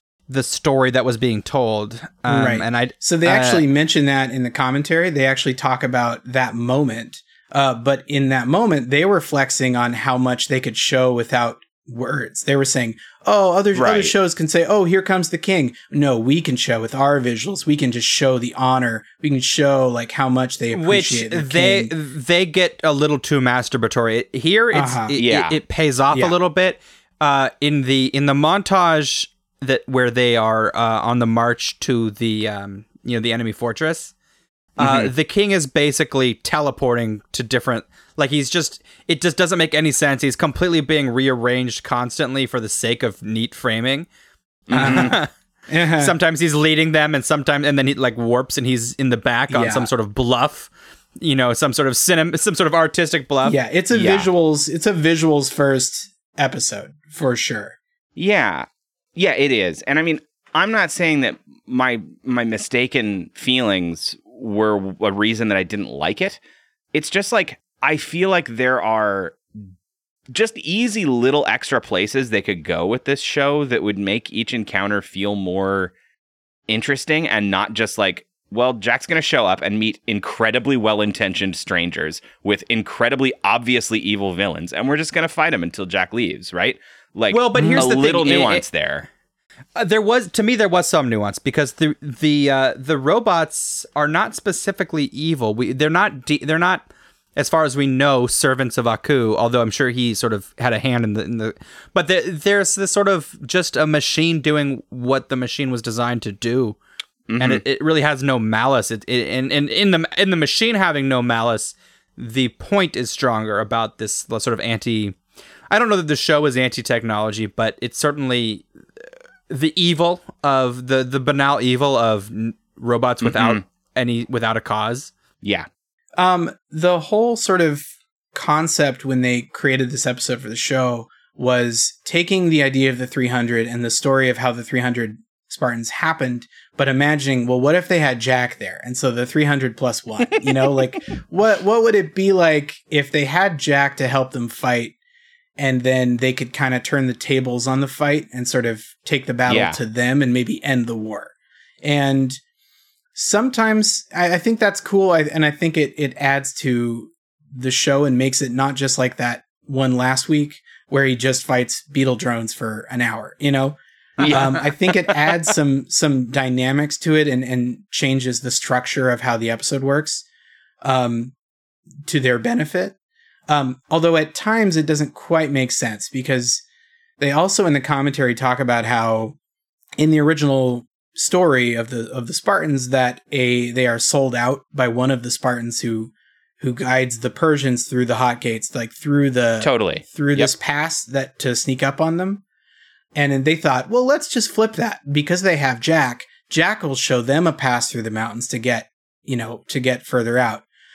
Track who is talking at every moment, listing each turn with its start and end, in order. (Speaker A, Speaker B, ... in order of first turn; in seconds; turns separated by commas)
Speaker A: 0.3-3.6, Speaker B: 2.3-21.9, Speaker C: 13.7-14.1, Speaker A: 20.7-34.1, Speaker B: 24.7-25.2, Speaker C: 25.1-25.6, Speaker B: 26.1-26.4, Speaker A: 34.8-44.1, Speaker C: 44.7-45.1, Speaker A: 44.7-45.3, Speaker B: 44.7-45.2, Speaker B: 45.7-46.1, Speaker A: 46.0-53.6, Speaker B: 49.5-49.9, Speaker B: 53.4-57.8, Speaker C: 53.9-54.3, Speaker C: 58.1-66.4, Speaker C: 66.9-69.4, Speaker C: 70.3-75.9, Speaker C: 76.7-89.1, Speaker A: 87.3-88.6, Speaker B: 87.5-87.8, Speaker A: 89.7-106.8, Speaker C: 107.3-107.6, Speaker A: 107.4-115.2, Speaker A: 115.7-118.7, Speaker A: 119.5-125.1, Speaker C: 123.2-123.6, Speaker C: 125.4-125.7, Speaker B: 126.2-144.9, Speaker B: 145.6-152.4, Speaker C: 149.5-149.8, Speaker B: 153.2-170.2, Speaker A: 164.2-164.6, Speaker B: 170.8-171.3, Speaker B: 172.1-172.9, Speaker B: 173.5-176.6, Speaker B: 177.2-179.3, Speaker B: 180.0-192.4, Speaker C: 189.6-190.5, Speaker B: 193.1-200.7